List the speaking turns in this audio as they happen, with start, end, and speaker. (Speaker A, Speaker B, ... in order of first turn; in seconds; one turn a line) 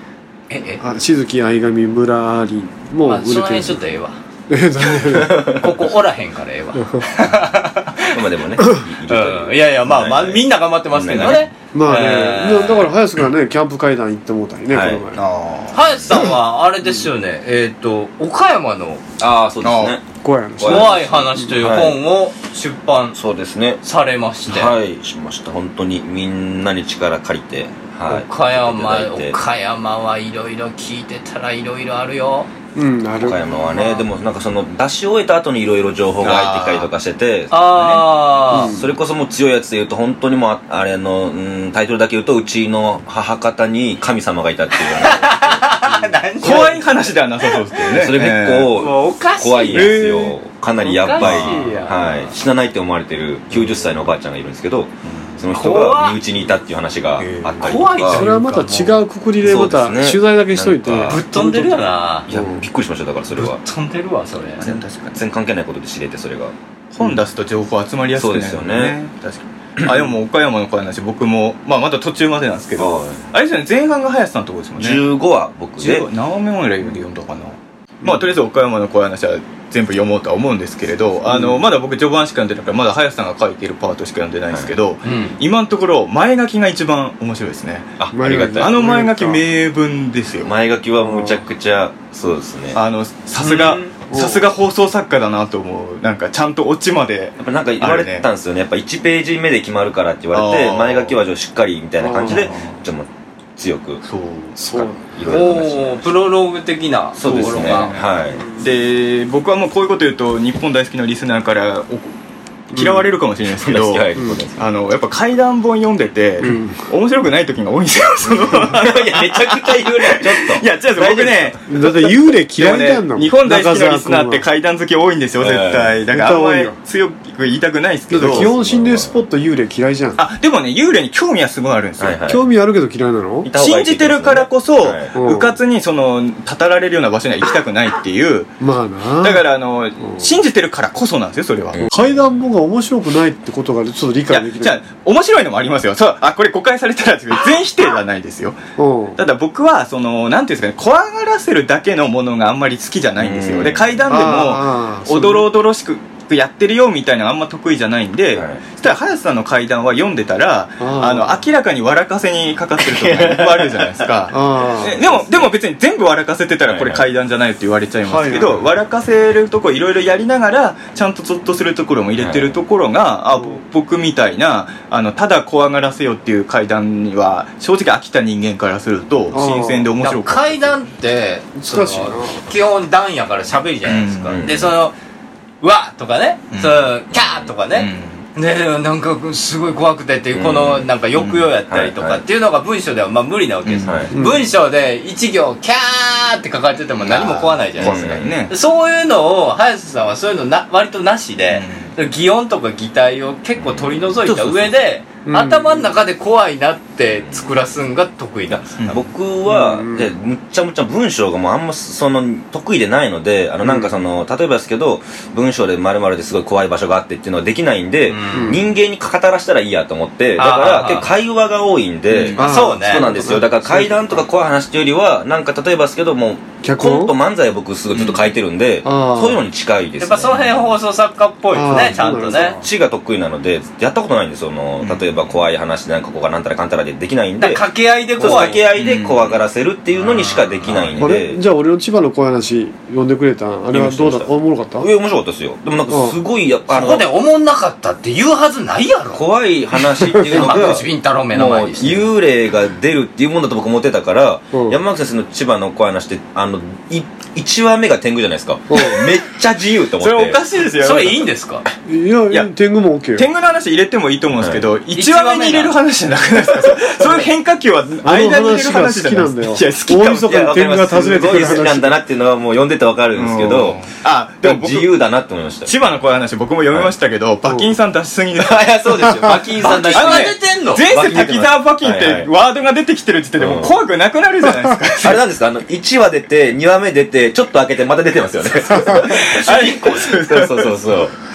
Speaker A: 0.5-0.8
Speaker B: 0.8-3.8
Speaker A: 3.0-4.2
Speaker B: 4.5-5.7
Speaker C: 5.1-5.5
Speaker A: 5.5-8.2
Speaker B: 6.8-7.0
Speaker C: 8.1-11.5
Speaker A: 9.1-12.9
Speaker B: 11.7-15.2
Speaker C: 14.7-15.1
Speaker D: 15.2-15.8
Speaker A: 15.7-19.0
Speaker C: 19.2-20.0
Speaker D: 19.6-19.9
Speaker B: 20.2-21.5
Speaker C: 20.6-22.0
Speaker A: 20.6-23.2
Speaker C: 23.1-23.8
Speaker A: 23.8-24.7
Speaker C: 24.5-29.4
Speaker A: 28.1-32.5
Speaker B: 32.7-33.4
Speaker C: 33.2-38.1
Speaker A: 33.6-34.0
Speaker D: 36.2-36.9
Speaker A: 37.5-38.8
Speaker B: 38.5-38.9
Speaker C: 38.6-45.7
Speaker A: 44.8-46.8
Speaker D: 46.4-48.7
Speaker C: 47.8-58.2
Speaker A: 48.7-50.0
Speaker D: 49.7-50.2
Speaker A: 50.8-52.3
Speaker D: 51.2-51.7
Speaker D: 55.0-55.4
Speaker A: 55.5-56.2
Speaker D: 57.2-57.8
Speaker A: 57.6-59.0
Speaker B: 58.0-61.8
Speaker C: 59.4-61.5
Speaker A: 61.0-62.3
Speaker C: 62.3-63.6
Speaker A: 63.3-64.6
Speaker D: 64.6-65.2
Speaker C: 64.7-66.5
Speaker D: 66.9-75.1
Speaker C: 68.1-69.0
Speaker C: 69.8-70.1
Speaker C: 72.8-73.2
Speaker C: 74.8-76.1
Speaker D: 75.8-88.0
Speaker B: 81.2-81.6
Speaker A: 85.0-85.3
Speaker C: 88.0-88.7
Speaker B: 88.1-89.4
Speaker D: 88.6-90.5
Speaker C: 90.4-92.8
Speaker B: 91.0-91.4
Speaker D: 92.7-98.3
Speaker C: 93.4-93.7
Speaker B: 94.1-94.5
Speaker C: 97.4-104.0
Speaker D: 100.3-101.2
Speaker B: 102.0-102.6
Speaker D: 102.1-102.8
Speaker D: 104.0-104.6
Speaker B: 104.6-105.0
Speaker C: 104.7-106.0
Speaker A: 105.2-108.0
Speaker C: 107.2-108.5
Speaker D: 107.2-112.1
Speaker B: 108.3-108.7
Speaker D: 112.7-121.6
Speaker B: 112.7-113.1
Speaker C: 113.6-114.6
Speaker B: 114.2-114.4
Speaker B: 116.4-116.8
Speaker C: 118.3-121.6
Speaker B: 121.7-124.5
Speaker D: 122.6-128.5
Speaker C: 125.4-125.9
Speaker B: 126.1-126.8
Speaker B: 128.1-130.2
Speaker C: 128.2-129.2
Speaker D: 130.2-132.2
Speaker C: 132.0-132.4
Speaker B: 132.2-133.5
Speaker C: 133.4-135.1
Speaker D: 133.5-138.5
Speaker B: 135.1-135.6
Speaker B: 138.6-139.4
Speaker D: 139.2-141.9
Speaker B: 141.9-144.8
Speaker D: 144.3-148.6
Speaker B: 148.8-149.2
Speaker D: 149.1-180.8
Speaker C: 153.2-154.1
Speaker B: 154.1-155.4
Speaker C: 158.3-158.6
Speaker B: 160.8-161.4
Speaker C: 162.8-163.9
Speaker B: 164.3-165.0
Speaker C: 164.9-165.3
Speaker C: 166.7-167.0
Speaker B: 168.0-168.6
Speaker C: 172.2-172.6
Speaker B: 179.3-179.9
Speaker A: 180.0-184.9
Speaker B: 181.6-182.4
Speaker D: 183.9-184.4
Speaker C: 184.3-184.8
Speaker A: 185.6-197.9
Speaker D: 186.5-186.9
Speaker C: 187.1-187.5
Speaker D: 187.7-188.2
Speaker C: 190.3-192.2
Speaker C: 193.6-194.2
Speaker D: 193.8-194.0
Speaker B: 194.1-194.5
Speaker D: 197.1-198.5
Speaker C: 197.8-198.4
Speaker A: 198.5-208.7
Speaker D: 201.5-201.9
Speaker C: 203.7-204.7
Speaker B: 205.2-205.9
Speaker C: 207.2-207.5
Speaker C: 208.5-230.8
Speaker D: 208.8-209.1
Speaker B: 209.4-210.2
Speaker B: 213.6-213.9
Speaker A: 218.1-218.5
Speaker B: 218.3-218.6
Speaker A: 220.4-221.1
Speaker D: 222.1-222.4
Speaker B: 222.3-224.2
Speaker A: 222.4-223.0
Speaker B: 226.6-227.1
Speaker D: 227.9-228.3
Speaker B: 228.8-229.4
Speaker A: 230.0-232.6
Speaker B: 231.5-232.7
Speaker C: 232.6-237.6
Speaker D: 234.8-235.1
Speaker A: 237.4-238.7
Speaker C: 238.2-241.4
Speaker D: 238.2-239.4
Speaker D: 240.1-240.8
Speaker A: 240.1-241.0
Speaker B: 241.0-244.9
Speaker C: 243.7-247.1
Speaker B: 245.9-246.2
Speaker A: 246.7-249.2
Speaker C: 249.1-260.4
Speaker B: 250.1-250.8
Speaker A: 250.2-252.1
Speaker B: 254.5-254.8
Speaker B: 258.7-259.1
Speaker D: 260.0-261.2
Speaker A: 260.8-261.6
Speaker B: 261.9-263.3
Speaker D: 263.1-270.2
Speaker C: 264.4-264.7
Speaker A: 264.9-265.8
Speaker B: 268.0-272.0
Speaker C: 270.1-273.9
Speaker D: 273.1-275.0
Speaker C: 274.4-275.7
Speaker D: 275.6-278.7
Speaker C: 278.5-280.2
Speaker A: 278.7-280.8
Speaker D: 279.6-285.2
Speaker C: 280.9-282.3
Speaker C: 283.4-283.7
Speaker C: 285.0-291.1
Speaker D: 289.0-291.0